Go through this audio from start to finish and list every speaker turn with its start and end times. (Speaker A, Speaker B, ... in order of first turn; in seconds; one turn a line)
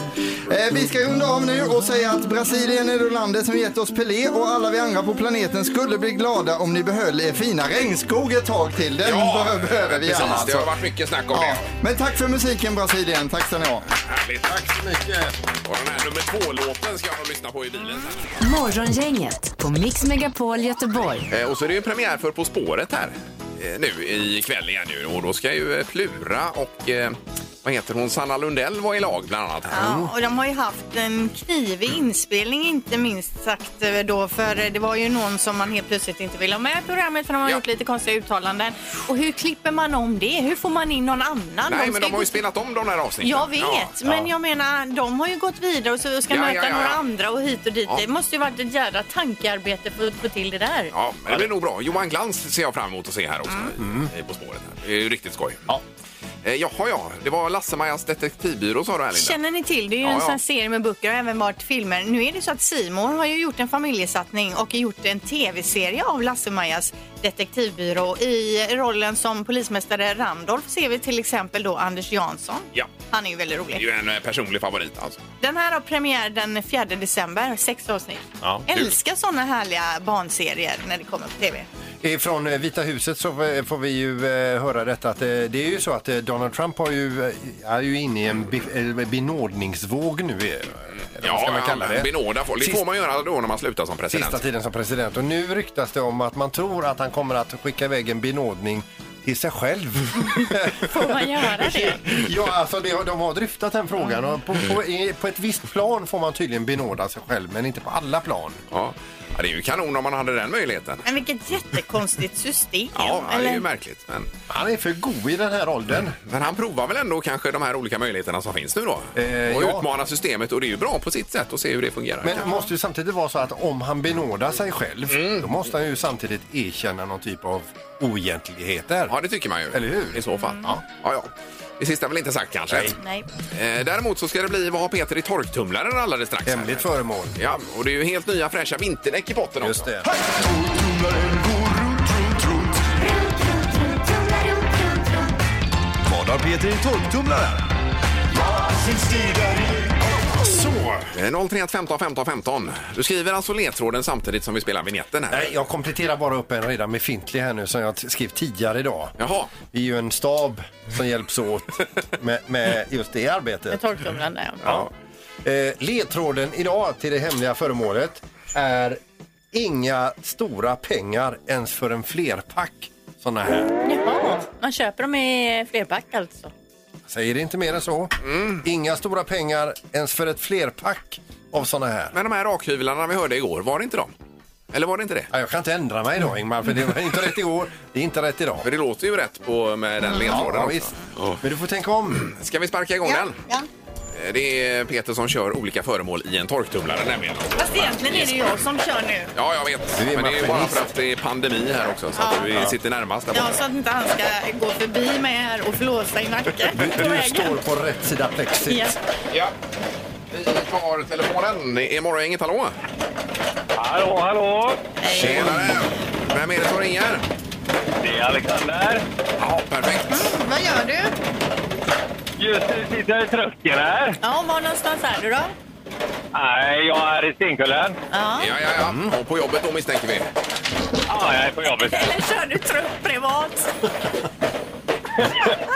Speaker A: 0.4-10.8
Speaker B: 9.0-11.6
Speaker A: 11.3-13.8
Speaker B: 14.1-14.5
Speaker C: 14.4-15.4
Speaker B: 15.6-18.4
Speaker D: 18.4-21.3
Speaker B: 21.3-29.9
Speaker C: 29.7-30.1
Speaker E: 29.7-42.4
Speaker B: 41.7-43.9
Speaker E: 43.2-50.9
Speaker B: 46.3-47.0
Speaker B: 50.9-55.7
Speaker C: 53.8-54.1
Speaker B: 56.4-59.4
Speaker E: 59.1-73.8
Speaker B: 60.0-60.4
Speaker B: 73.8-75.2
Speaker E: 75.4-81.7
Speaker C: 82.0-92.8
Speaker B: 91.2-94.4
Speaker C: 94.1-108.6
Speaker E: 100.4-102.2
Speaker B: 108.7-111.0
Speaker E: 111.0-113.7
Speaker B: 112.9-114.3
Speaker C: 114.5-116.2
Speaker B: 116.2-122.5
Speaker C: 119.2-119.9
Speaker C: 122.2-129.2
Speaker E: 122.4-122.7
Speaker B: 125.1-125.6
Speaker B: 129.1-133.0
Speaker C: 129.7-130.8
Speaker E: 130.4-130.7
Speaker C: 132.7-133.0
Speaker E: 133.0-133.3
Speaker B: 133.5-139.9
Speaker C: 136.5-137.4
Speaker C: 139.6-140.1
Speaker C: 146.1-147.6
Speaker C: 149.0-149.7
Speaker C: 150.4-151.0
Speaker B: 151.1-155.5
Speaker C: 155.3-159.1
Speaker B: 159.2-159.5
Speaker C: 159.7-163.9
Speaker E: 163.7-164.8
Speaker C: 165.4-169.0
Speaker C: 169.5-173.7
Speaker E: 173.8-176.5
Speaker C: 177.1-182.2
Speaker B: 178.2-178.6
Speaker B: 182.1-184.1
Speaker B: 184.7-185.3
Speaker C: 185.3-188.7
Speaker B: 188.6-191.4
Speaker C: 190.2-192.3
Speaker B: 192.2-193.4
Speaker E: 193.0-193.7
Speaker B: 194.1-198.6
Speaker E: 197.6-199.3
Speaker B: 199.3-203.6
Speaker C: 200.0-200.9
Speaker E: 202.2-202.7
Speaker E: 203.3-207.6
Speaker C: 206.7-209.0
Speaker E: 208.7-208.9
Speaker B: 210.3-212.8
Speaker F: 213.8-214.8
Speaker E: 215.0-215.8
Speaker B: 215.1-217.2
Speaker F: 218.0-219.0
Speaker B: 219.4-220.3
Speaker E: 220.1-221.2
Speaker F: 222.4-224.2
Speaker E: 224.2-225.5
Speaker F: 226.3-228.0
Speaker E: 228.1-228.5
Speaker B: 228.4-230.3
Speaker C: 228.8-229.2
Speaker F: 231.1-232.2
Speaker E: 231.8-233.7